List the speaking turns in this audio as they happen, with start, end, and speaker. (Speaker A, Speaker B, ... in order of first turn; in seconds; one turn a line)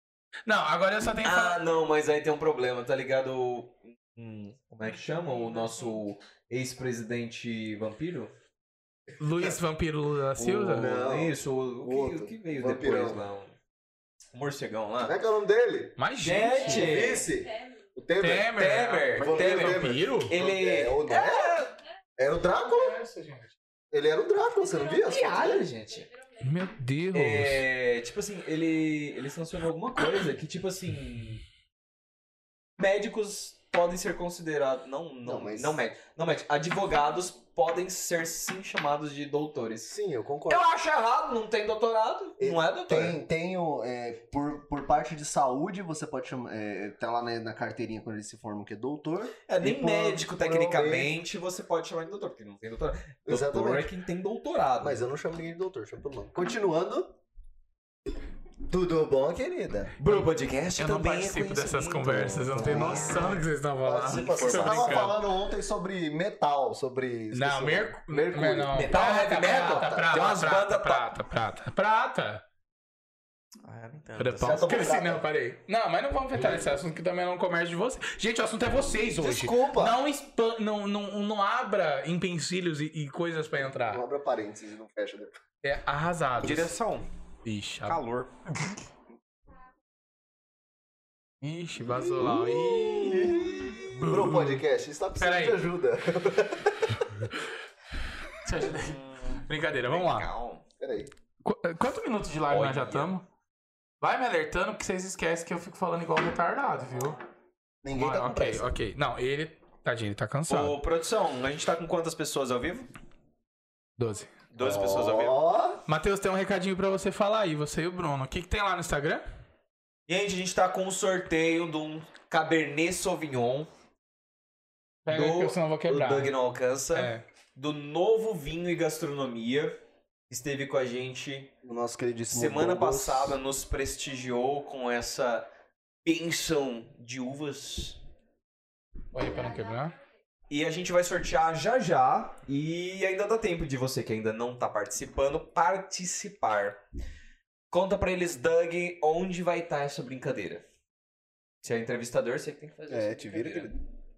Speaker A: 0.5-1.6
Speaker B: 1.2-8.3
Speaker A: 9.2-11.1
Speaker C: 10.4-13.2
Speaker B: 10.8-13.5
Speaker B: 14.3-15.2
Speaker C: 15.0-16.0
Speaker A: 16.0-17.0
Speaker B: 16.2-17.3
Speaker C: 16.6-18.6
Speaker A: 18.2-20.3
Speaker B: 18.5-21.7
Speaker C: 19.1-21.6
Speaker C: 22.2-23.0
Speaker A: 22.6-23.6
Speaker C: 23.9-25.7
Speaker B: 24.9-26.1
Speaker A: 26.4-27.6
Speaker B: 27.1-31.4
Speaker B: 32.8-39.9
Speaker C: 35.2-35.8
Speaker C: 39.9-40.6
Speaker B: 40.5-43.2
Speaker C: 42.4-51.1
Speaker B: 49.5-55.0
Speaker C: 53.3-53.9
Speaker C: 54.8-57.2
Speaker C: 58.7-60.0
Speaker B: 60.0-63.4
Speaker A: 60.8-65.2
Speaker C: 62.2-70.2
Speaker B: 64.1-65.2
Speaker A: 67.3-72.4
Speaker B: 68.8-71.1
Speaker B: 73.6-74.7
Speaker A: 74.2-84.0
Speaker C: 74.4-75.2
Speaker C: 79.2-80.0
Speaker C: 83.8-85.3
Speaker A: 85.6-86.7
Speaker B: 86.4-87.1
Speaker A: 87.5-88.0
Speaker B: 87.9-88.3
Speaker A: 91.4-94.6
Speaker C: 91.8-97.3
Speaker A: 95.2-95.6
Speaker A: 97.2-97.5
Speaker A: 98.3-100.3
Speaker B: 98.6-100.6
Speaker C: 100.8-101.1
Speaker A: 101.4-103.2
Speaker B: 102.5-103.1
Speaker A: 104.0-107.2
Speaker C: 107.8-108.7
Speaker A: 108.0-110.8
Speaker B: 110.5-112.9
Speaker A: 114.0-114.4
Speaker B: 114.5-115.4
Speaker C: 114.6-115.8
Speaker A: 115.9-119.2
Speaker B: 120.1-123.7
Speaker A: 125.1-126.3
Speaker B: 125.1-129.8
Speaker A: 126.9-127.2
Speaker B: 130.3-131.5
Speaker C: 131.6-133.4
Speaker B: 132.3-135.5
Speaker B: 136.1-138.0
Speaker A: 139.1-139.9
Speaker B: 140.5-146.8
Speaker B: 147.7-150.6
Speaker B: 151.6-153.7
Speaker C: 152.9-153.8